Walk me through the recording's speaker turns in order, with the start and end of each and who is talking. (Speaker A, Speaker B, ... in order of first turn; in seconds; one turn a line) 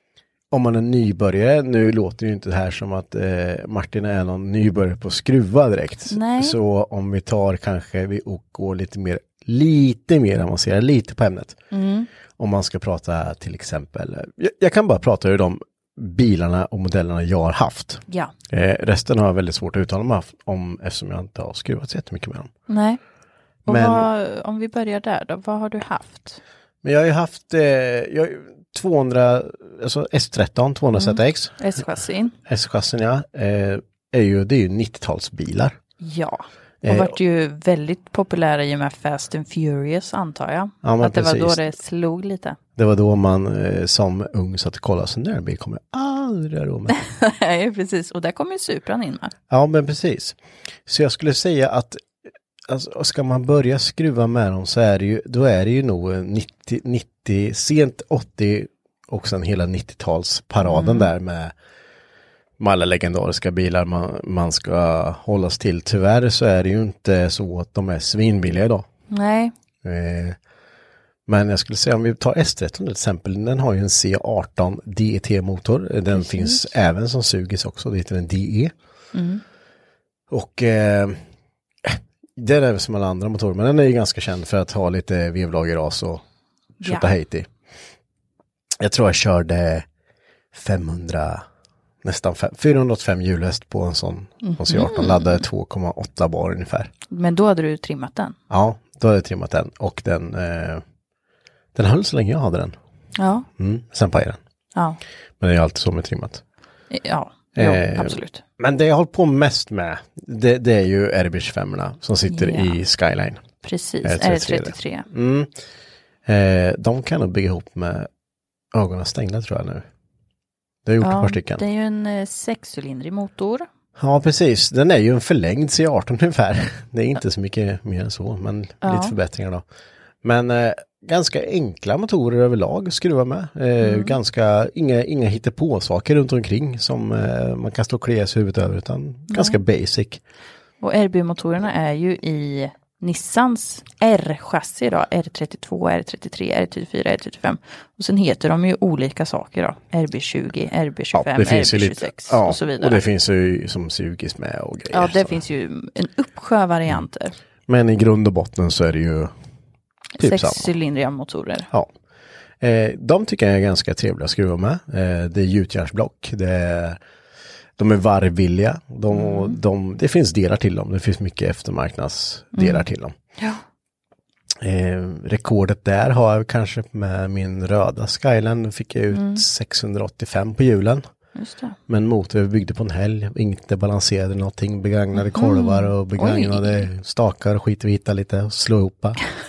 Speaker A: 0.5-11.6
Speaker B: 6.1-6.6
Speaker B: 11.7-12.1
Speaker A: 12.4-22.5
Speaker B: 18.1-18.3
Speaker B: 22.7-23.0
Speaker B: 23.7-26.4
Speaker A: 23.7-24.1
Speaker A: 26.8-31.6
Speaker B: 30.9-32.4
Speaker A: 32.5-35.8
Speaker B: 36.0-42.6
Speaker A: 36.9-37.2
Speaker A: 40.8-41.6
Speaker A: 42.8-47.0
Speaker B: 46.9-49.3
Speaker A: 49.5-50.4
Speaker A: 50.9-52.0
Speaker A: 52.7-61.5
Speaker B: 60.6-61.1
Speaker A: 62.6-68.9
Speaker B: 69.1-69.5
Speaker A: 69.8-70.4
Speaker A: 71.3-78.7
Speaker B: 76.1-76.7
Speaker B: 79.1-79.4
Speaker A: 80.3-81.2
Speaker A: 81.8-86.2
Speaker B: 86.8-87.1
Speaker A: 86.8-87.5
Speaker A: 88.8-89.9
Speaker A: 90.5-91.4
Speaker A: 92.0-96.9
Speaker B: 94.4-95.4
Speaker B: 97.1-98.4
Speaker A: 98.5-100.8
Speaker A: 101.8-102.8
Speaker B: 103.2-103.5
Speaker A: 103.6-104.4
Speaker B: 104.8-105.0
Speaker A: 105.4-106.4
Speaker B: 106.9-108.4
Speaker A: 107.6-113.5
Speaker B: 112.3-112.8
Speaker B: 113.6-115.1
Speaker A: 114.0-115.5
Speaker A: 116.2-118.1
Speaker A: 118.7-119.9
Speaker A: 120.8-121.6
Speaker B: 121.0-123.7
Speaker A: 124.0-129.6
Speaker B: 128.8-129.2
Speaker A: 130.2-140.2
Speaker B: 133.8-134.2
Speaker B: 139.3-139.6
Speaker B: 140.8-153.0
Speaker A: 151.1-155.4
Speaker B: 154.9-157.3
Speaker A: 157.7-159.3
Speaker B: 160.2-161.7
Speaker A: 160.2-160.7
Speaker A: 162.6-167.0
Speaker A: 167.8-173.1
Speaker B: 169.1-169.6
Speaker B: 172.5-172.8
Speaker A: 174.6-181.0
Speaker B: 179.1-179.4
Speaker B: 181.4-181.8
Speaker A: 181.9-189.2
Speaker B: 185.2-186.9